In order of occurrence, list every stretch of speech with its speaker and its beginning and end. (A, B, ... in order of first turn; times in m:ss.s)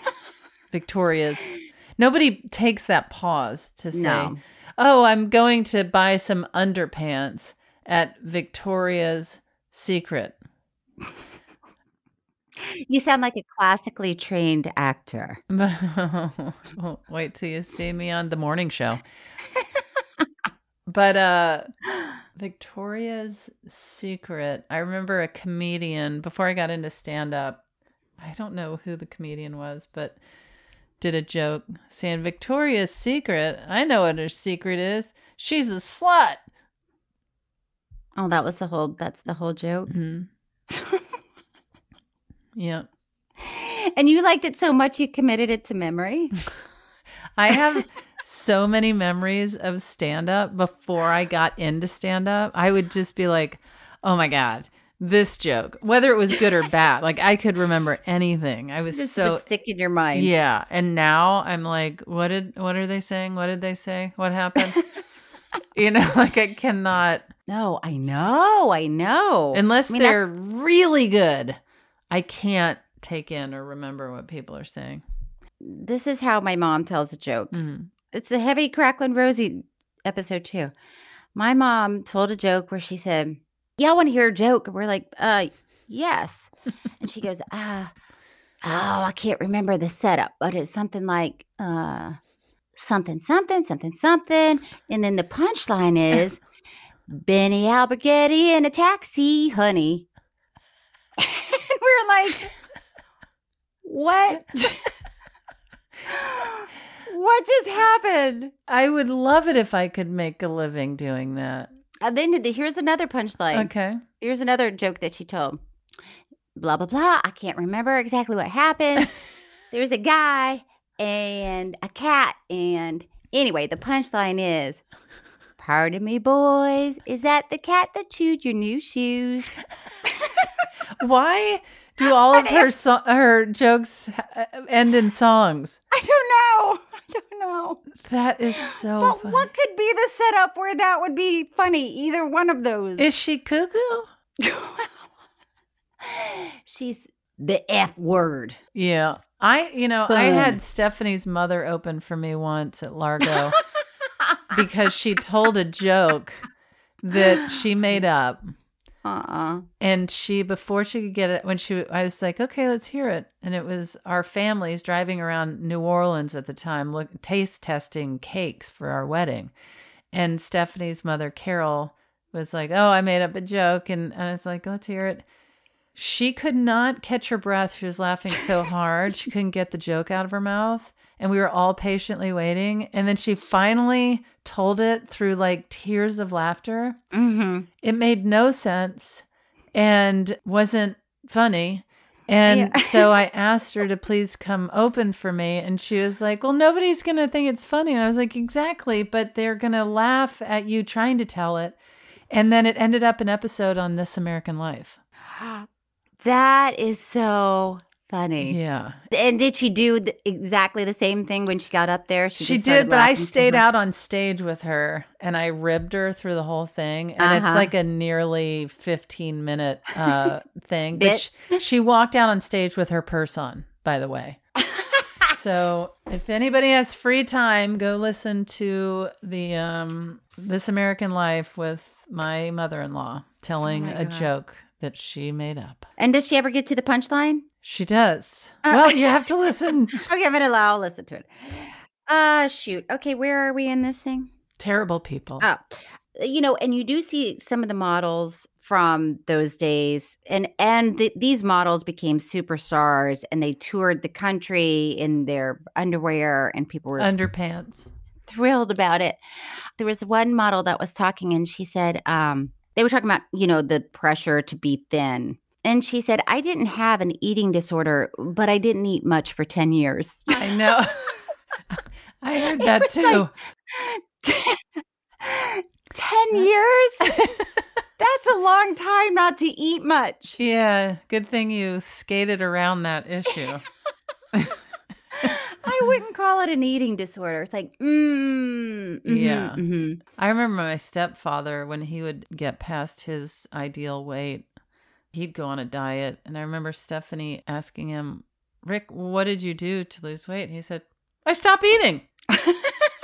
0:00.7-0:10.4 A
0:03.9-0:04.4 B
0:12.6-0:15.4 B
0:15.5-0:19.0 A
0:20.9-0:21.7 A
0:22.4-0:27.6 A
0:28.2-0:30.2 A
0:31.0-0:36.4 A
0:38.2-0:39.9 B
0:39.9-0:40.3 A
0:40.7-0:41.0 B
0:42.6-0:42.9 A
0:43.4-0:46.3 B
0:47.4-0:59.4 A
0:58.9-1:00.3 B
1:00.1-1:04.8 A
1:05.7-1:07.3 A
1:07.5-1:10.2 B
1:09.5-1:11.6 A
1:12.1-1:15.0 A
1:15.6-1:17.6 B
1:17.5-1:17.9 A
1:18.1-1:20.7 B
1:21.3-1:27.9 B
1:28.6-1:32.2 B
1:32.8-1:36.4 B
1:37.1-1:40.0 B
1:41.2-1:42.5 B
1:43.8-1:44.8 B
1:46.1-1:48.5 B
1:48.7-1:51.7 A
1:52.0-1:55.6 B
1:53.5-1:54.0 A
1:56.6-1:59.1 B
1:59.7-2:04.8 B
2:05.6-2:09.6 B
2:10.1-2:10.5 B
2:11.0-2:15.8 A
2:12.0-2:12.7 B
2:15.9-2:17.8 B
2:18.0-2:19.5 A
2:18.6-2:23.0 B
2:23.0-2:24.1 A
2:24.4-2:25.0 B
2:26.0-2:28.6 B
2:28.7-2:33.6 A
2:30.1-2:30.6 B
2:34.5-2:36.4 A
2:37.0-2:38.5 A
2:39.0-2:39.6 B
2:39.8-2:49.5 A
2:50.1-2:55.2 A
2:55.9-3:07.0 A
3:07.1-3:07.7 B
3:07.8-3:21.8 A
3:12.4-3:13.2 B
3:22.3-3:25.0 A
3:25.3-3:25.7 B
3:26.2-3:28.6 B
3:28.4-3:29.0 A
3:29.1-3:33.6 B
3:32.4-3:44.4 A
3:37.2-3:37.7 B
3:41.0-3:41.3 B
3:45.3-3:55.9 A
3:53.6-3:54.3 B
3:56.0-3:57.4 B
3:57.6-4:00.1 A
3:58.7-3:59.2 B
4:00.0-4:04.3 B
4:04.6-4:05.5 A
4:05.4-4:17.1 B
4:17.0-4:17.9 A
4:18.3-4:19.2 B
4:19.8-4:30.5 B
4:30.3-4:31.0 A
4:32.2-4:33.3 A
4:32.5-4:34.6 B
4:35.2-4:37.2 B
4:38.0-4:40.4 B
4:40.4-4:43.6 A
4:45.2-4:50.0 B
4:49.1-4:49.6 A
4:50.2-4:54.5 A
4:55.1-5:02.0 A
5:02.3-5:02.9 B